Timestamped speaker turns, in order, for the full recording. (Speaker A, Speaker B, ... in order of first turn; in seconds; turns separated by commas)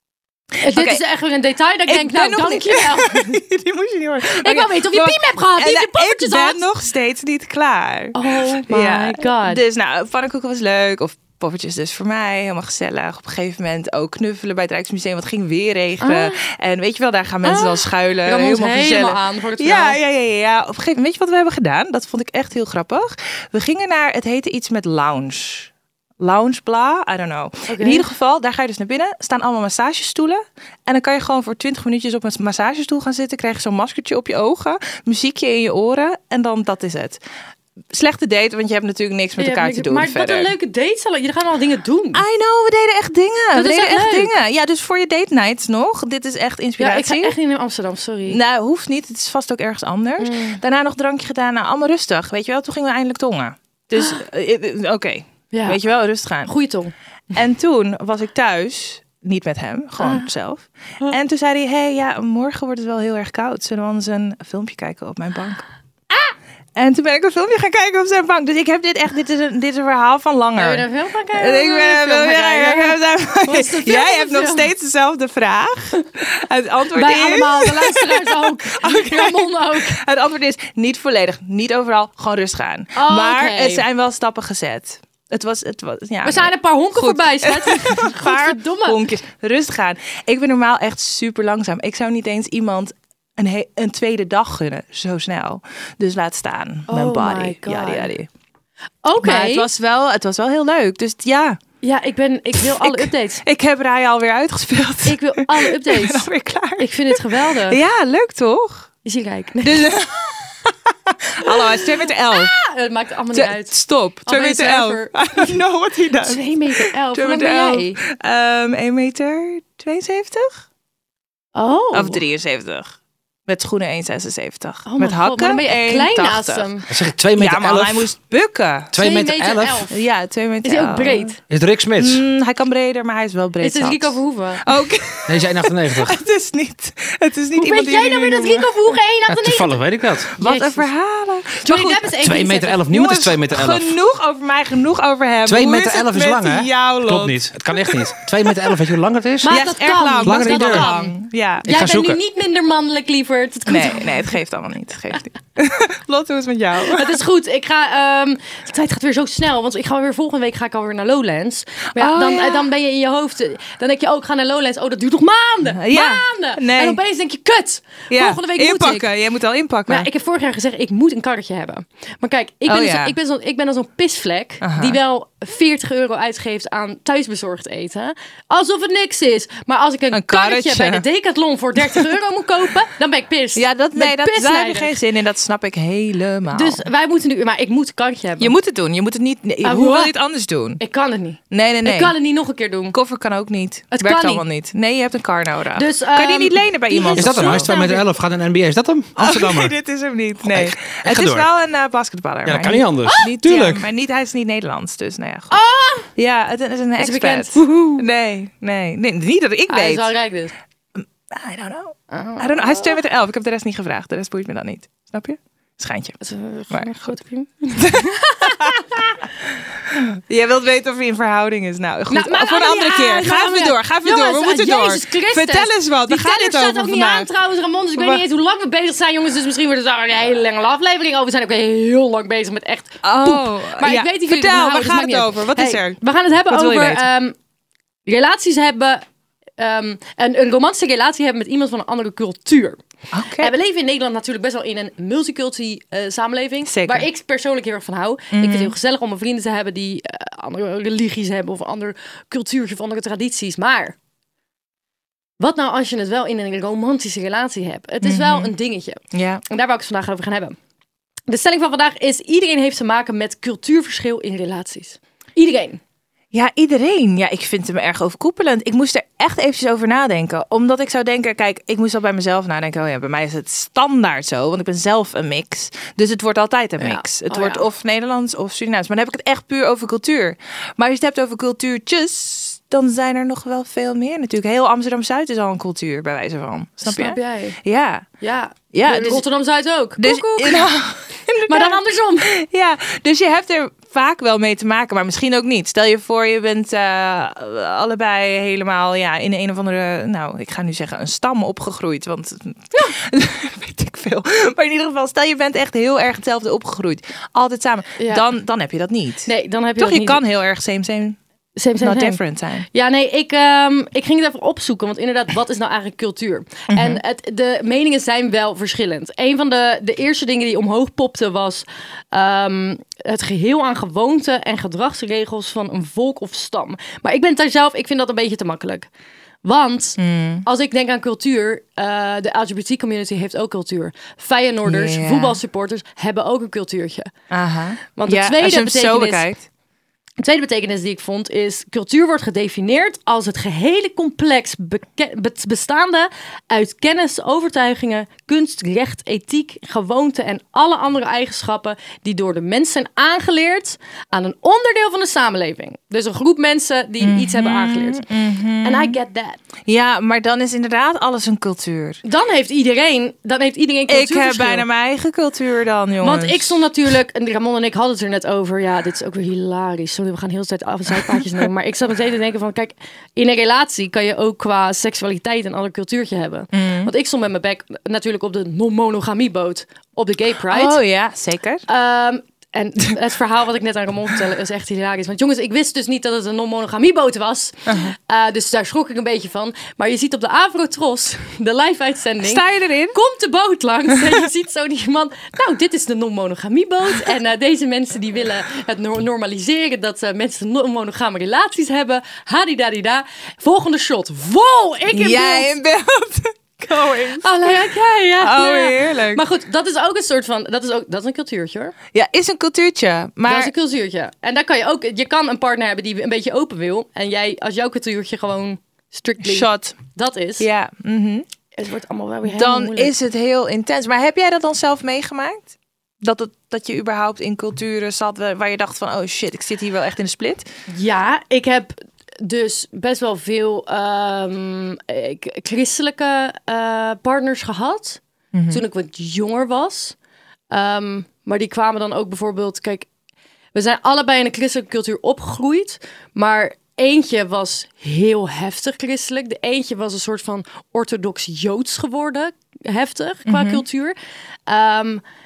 Speaker A: 0.6-3.4, Speaker B: 0.7-1.0, Speaker B: 1.9-37.2, Speaker A: 4.2-6.7, Speaker A: 8.2-9.6, Speaker A: 16.0-16.4, Speaker A: 17.4-20.0, Speaker A: 27.7-28.1, Speaker B: 37.9-40.5, Speaker A: 39.4-42.2, Speaker B: 42.1-47.4, Speaker A: 43.5-44.3, Speaker A: 46.8-48.4, Speaker B: 48.3-56.5, Speaker A: 50.2-50.6, Speaker A: 55.5-55.8, Speaker A: 56.4-56.9, Speaker B: 57.3-65.7, Speaker B: 66.8-98.3, Speaker A: 70.6-74.7, Speaker A: 76.9-80.0, Speaker A: 83.0-83.8, Speaker A: 86.2-89.0, Speaker A: 96.9-98.1, Speaker A: 99.0-99.7, Speaker B: 99.2-101.6, Speaker A: 101.8-103.4, Speaker B: 102.6-108.9, Speaker A: 105.0-106.3, Speaker A: 106.8-107.8, Speaker A: 109.0-109.9, Speaker B: 109.6-112.6, Speaker A: 111.4-111.8, Speaker A: 112.3-115.6, Speaker B: 113.3-120.6, Speaker A: 116.2-118.0, Speaker A: 121.5-122.2, Speaker B: 121.9-123.0, Speaker B: 123.5-126.7, Speaker A: 124.8-126.9, Speaker C: 126.9-128.1, Speaker B: 127.3-129.0, Speaker C: 128.9-129.9, Speaker A: 129.0-130.0, Speaker B: 129.9-131.4, Speaker A: 130.6-131.4, Speaker C: 131.5-132.2, Speaker B: 132.0-138.9, Speaker A: 133.6-134.7, Speaker C: 135.3-136.2, Speaker A: 137.6-139.8, Speaker C: 139.3-140.3, Speaker B: 140.4-142.1, Speaker A: 140.4-140.9, Speaker A: 141.6-142.8, Speaker C: 142.2-144.0, Speaker B: 142.9-148.2, Speaker C: 145.5-149.6, Speaker A: 149.4-154.3, Speaker B: 149.4-151.8, Speaker C: 150.2-150.9, Speaker C: 151.7-152.2, Speaker B: 153.7-157.2, Speaker A: 156.8-169.1, Speaker B: 162.0-162.7, Speaker B: 165.7-167.0, Speaker B: 168.1-170.1, Speaker A: 169.9-185.0, Speaker B: 172.7-173.2, Speaker B: 174.6-175.0, Speaker B: 180.1-181.0, Speaker B: 183.6-186.8, Speaker A: 186.5-188.5, Speaker B: 188.4-190.8, Speaker A: 189.6-190.1, Speaker A: 190.8-193.0, Speaker B: 191.5-192.2, Speaker B: 192.9-197.8, Speaker A: 193.9-194.4, Speaker A: 195.8-198.1, Speaker C: 197.1-199.8, Speaker B: 199.2-205.6, Speaker C: 200.5-201.5, Speaker C: 202.4-203.9, Speaker A: 205.5-206.1, Speaker B: 206.2-210.1, Speaker A: 207.0-208.1, Speaker A: 209.7-210.5, Speaker B: 211.0-216.2, Speaker A: 212.1-213.0, Speaker A: 216.2-219.2, Speaker B: 216.7-217.1, Speaker B: 217.8-218.9, Speaker B: 219.9-227.3, Speaker A: 222.1-237.4, Speaker B: 228.0-228.2, Speaker B: 233.0-237.1, Speaker A: 238.1-239.1, Speaker A: 239.6-242.8, Speaker B: 243.1-243.5, Speaker A: 243.4-254.0, Speaker B: 246.7-247.1, Speaker B: 248.3-248.7, Speaker A: 255.4-260.6, Speaker B: 258.0-258.5, Speaker B: 259.1-259.4, Speaker A: 261.3-265.8, Speaker B: 266.3-288.1, Speaker A: 276.8-277.7, Speaker A: 286.8-287.6, Speaker A: 288.2-290.7, Speaker B: 288.7-289.2, Speaker B: 290.0-311.2, Speaker A: 291.5-292.3, Speaker A: 308.0-308.2, Speaker A: 309.3-310.2, Speaker A: 311.6-328.9, Speaker B: 311.8-312.7, Speaker B: 316.7-317.0, Speaker A: 329.4-337.1, Speaker B: 330.0-330.5, Speaker B: 334.6-335.4, Speaker B: 337.3-339.5, Speaker A: 337.9-339.3, Speaker A: 340.2-358.0, Speaker B: 357.0-359.0, Speaker A: 358.6-359.4, Speaker B: 359.7-362.0, Speaker A: 362.0-364.7, Speaker B: 363.9-366.6, Speaker A: 366.0-380.8, Speaker B: 376.5-376.9, Speaker B: 380.5-381.6, Speaker A: 381.7-405.6, Speaker B: 387.7-387.9, Speaker B: 392.2-393.0, Speaker B: 404.9-407.6, Speaker A: 407.2-411.8, Speaker B: 408.2-409.2, Speaker B: 411.9-413.5, Speaker A: 413.3-420.5, Speaker B: 419.2-419.8, Speaker B: 420.4-421.3, Speaker A: 421.6-422.9, Speaker B: 422.2-430.5, Speaker A: 430.7-440.0, Speaker B: 438.3-438.6, Speaker A: 440.5-442.9, Speaker A: 443.5-453.9, Speaker B: 453.3-453.6, Speaker A: 454.5-455.0